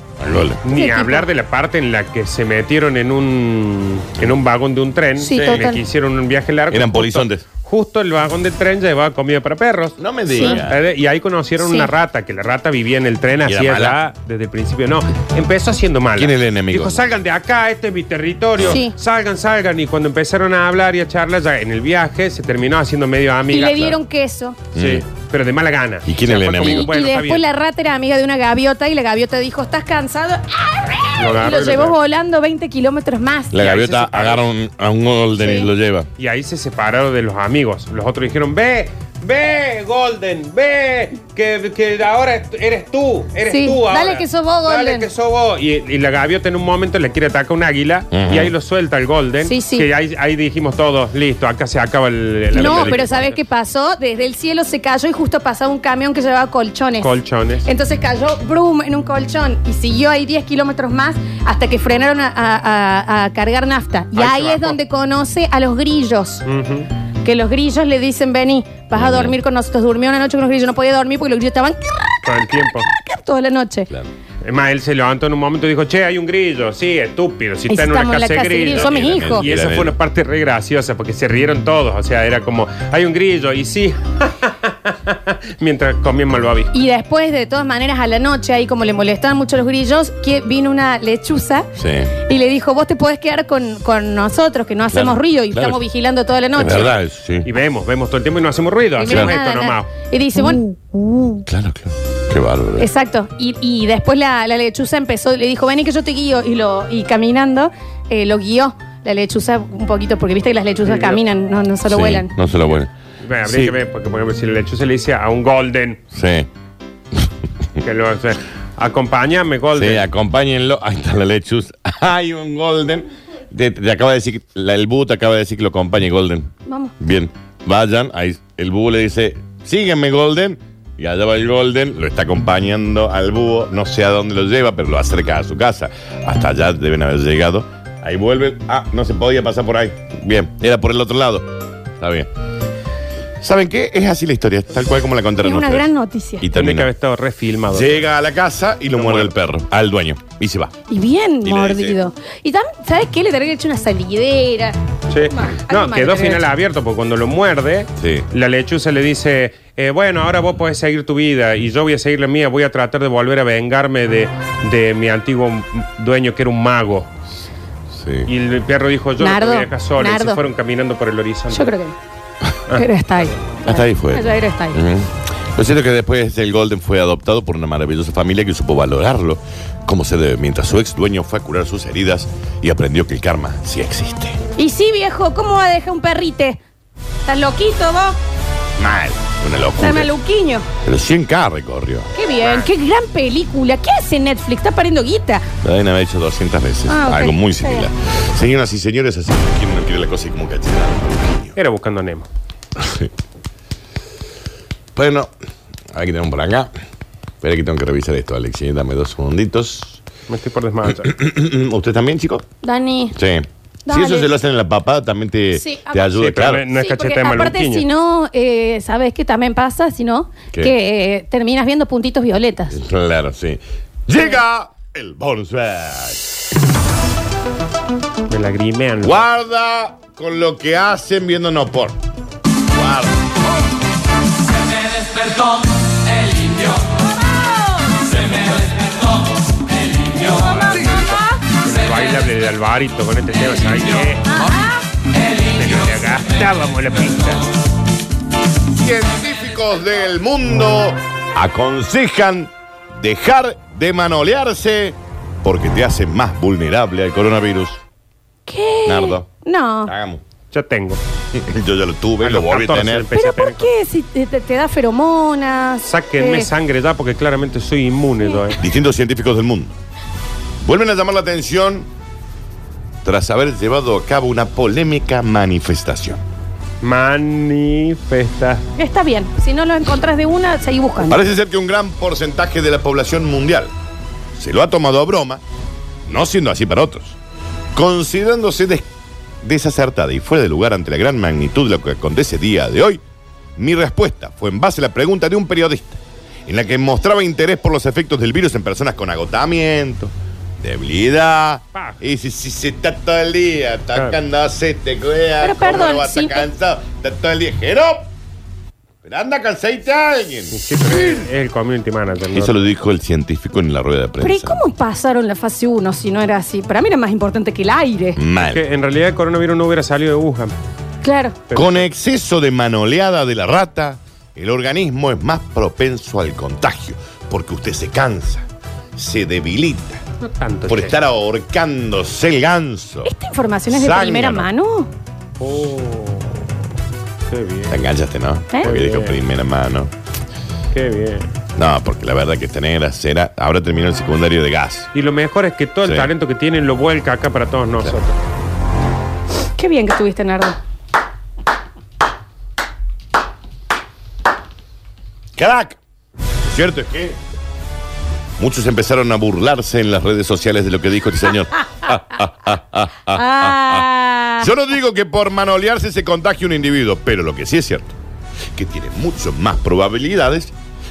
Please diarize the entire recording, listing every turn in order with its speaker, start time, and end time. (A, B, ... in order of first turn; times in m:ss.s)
0:00.2-0:00.6 A
0:00.6-0:24.0 B
0:00.7-0:01.3 C
0:05.2-0:05.8 C
0:05.3-0:05.7 A
0:06.7-0:07.4 A
0:10.0-0:10.8 A
0:10.3-0:10.6 C
0:11.6-0:11.9 C
0:13.4-0:14.0 A
0:16.2-0:17.0 A
0:18.6-0:18.9 C
0:23.5-0:24.6 C
0:24.7-0:25.0 A
0:24.7-0:27.4 B
0:26.1-0:26.9 A
0:26.6-0:33.5 C
0:31.2-0:32.0 B
0:33.5-0:36.1 A
0:33.5-0:34.5 B
0:35.4-0:35.7 C
0:36.2-0:53.4 B
0:43.4-0:45.1 C
0:48.1-0:48.5 A
0:49.4-0:49.9 C
0:52.5-0:53.3 A
0:52.5-1:06.4 C
0:57.0-0:57.7 B
1:04.1-1:04.8 B
1:06.4-1:06.9 B
1:07.2-1:13.9 C
1:08.9-1:09.4 A
1:12.2-1:12.9 B
1:14.4-1:26.8 B
1:17.7-1:19.5 C
1:18.7-1:20.0 A
1:26.7-1:31.7 C
1:31.8-1:32.1 A
1:32.2-1:37.0 C
1:34.9-1:35.8 A
1:36.5-1:37.5 A
1:37.4-1:39.9 B
1:39.0-1:41.4 C
1:39.0-1:39.3 A
1:41.5-1:42.9 A
1:42.8-1:52.3 C
1:50.8-1:51.2 B
1:51.9-1:52.9 A
1:53.2-1:56.0 B
1:53.4-1:53.7 A
1:56.1-1:56.5 A
1:57.8-2:00.1 B
1:59.7-2:21.5 A
2:06.6-2:06.9 C
2:22.0-2:22.3 A
2:23.4-2:25.9 A
2:25.4-2:26.5 C
2:26.4-2:26.9 A
2:26.5-2:28.0 B
2:27.7-2:30.7 A
2:28.9-2:29.3 B
2:30.9-2:36.4 C
2:31.4-2:32.0 A
2:35.1-2:47.1 B
2:38.0-2:38.2 A
2:47.9-2:48.3 A
2:48.2-2:51.7 B
2:49.2-2:50.4 C
2:51.5-2:52.0 C
2:52.7-2:53.3 B
2:52.7-2:54.8 C
2:53.6-3:04.4 A
3:04.6-3:06.6 C
3:07.2-3:08.2 C
3:08.8-3:10.1 A
3:09.8-3:10.6 C
3:10.8-3:12.1 A
3:12.1-3:15.4 C
3:12.4-3:12.7 B
3:15.6-3:21.6 A
3:16.9-3:17.9 C
3:21.6-3:22.3 B
3:22.8-3:23.1 A
3:25.0-3:25.3 A
3:25.9-3:26.7 A
3:27.4-3:30.0 A
3:30.3-3:31.1 B
3:30.9-3:32.4 A
3:32.6-3:33.2 C
3:33.1-3:36.6 A
3:33.9-3:34.3 C
3:35.5-3:42.8 C
3:36.1-3:37.8 B
3:42.7-3:46.3 A
3:48.3-3:49.2 B
3:49.0-3:52.0 A
3:52.7-3:53.2 A
4:00.2-4:04.2 B
4:00.3-4:01.4 C
4:04.3-4:04.8 C
4:05.5-4:07.5 B
4:08.7-4:17.8 A
4:18.5-4:19.9 C
4:18.8-4:19.3 A
4:19.8-4:20.2 A
4:20.5-4:21.0 B
4:21.3-4:23.1 A
4:22.2-4:23.7 B
4:23.1-4:26.5 C
4:25.8-4:28.6 B
4:28.6-4:29.8 A
4:30.6-4:31.9 A
4:33.0-4:36.2 A
4:36.8-4:38.6 B
4:38.8-4:41.2 C
4:41.0-4:43.7 A
4:44.3-4:45.4 A
4:46.1-4:47.2 A
4:47.7-4:48.9 A
4:49.4-4:53.0 A
4:53.6-5:08.1 A
5:01.7-5:02.0 B
5:05.4-5:06.4 C
5:09.0-5:11.3 A
5:10.5-5:12.7 B
5:12.3-5:14.6 A
5:14.2-5:18.2 C
5:18.2-5:18.6 A
5:18.5-5:20.5 B
5:21.0-5:21.4 C
5:21.5-5:21.9 B
5:21.5-5:30.0 A
5:30.2-5:31.0 B
5:30.7-5:33.1 A
5:33.0-5:34.9 C
5:33.7-5:34.5 A
5:35.4-5:36.5 B
5:37.3-5:37.8 B
5:37.7-5:39.9 A
5:38.6-5:39.2 B
5:40.7-5:41.3 B
5:41.6-5:44.9 A
5:44.9-5:48.2 B
5:45.8-5:46.1 A
5:49.6-5:50.6 C
5:55.4-5:55.8 A
5:56.4-5:57.2 A
5:58.4-6:03.8 A
6:03.1-6:04.5 C
6:04.4-6:07.9 A
6:08.5-6:10.5 A